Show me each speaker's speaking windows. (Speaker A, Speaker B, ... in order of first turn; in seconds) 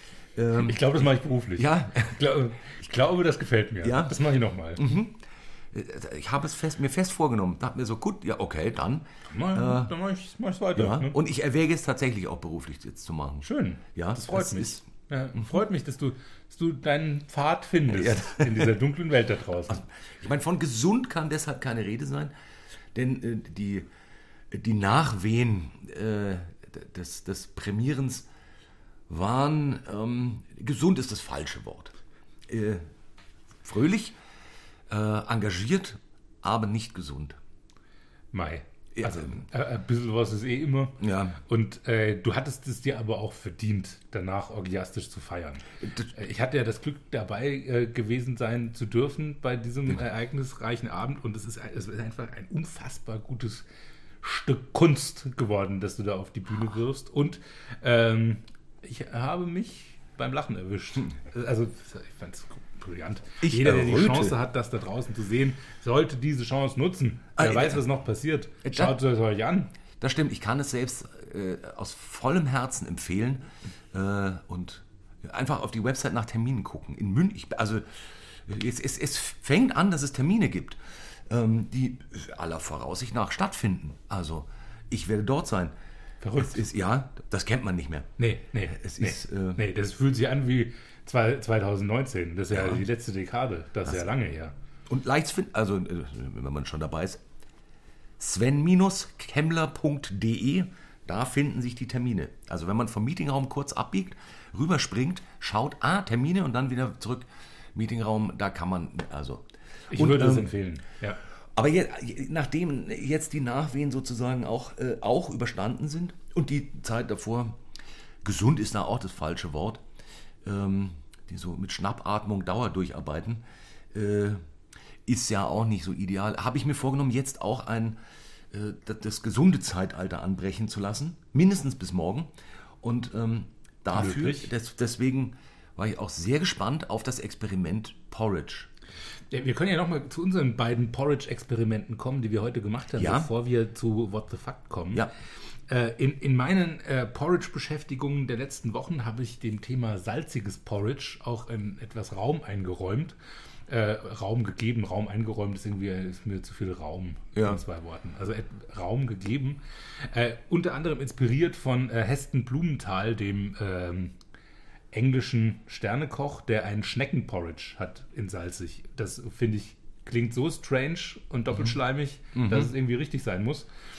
Speaker A: 0.3-0.9, 1.6-2.2, 3.8-4.2, 4.7-5.2, 5.7-9.9, 10.8-14.8, 17.9-18.8, 19.7-22.3, 22.9-23.9, 24.5-28.3, 29.1-31.9, 32.5-32.8, 33.6-34.1, 34.9-37.4, 38.9-39.4, 41.0-41.4, 45.8-46.1, 63.4-64.4, 67.4-67.8, 68.6-68.9, 70.0-85.7, 86.4-88.1, 88.7-89.6, 92.5-92.8, 94.9-97.2, 98.2-110.5, 111.5-117.6, 118.2-119.8, 120.4-124.4, 125.0-128.0, 128.5-132.3, 132.8-138.7, 143.0-143.3, 157.3-157.6, 172.3-172.7
Speaker B: 0.5-4.9, 9.3-11.2, 13.4-19.8, 38.3-53.6, 54.2-69.7, 86.2-86.6, 88.2-94.5, 109.9-111.2, 133.9-134.5, 139.3-145.1, 145.7-153.1, 153.7-164.1, 164.9-173.7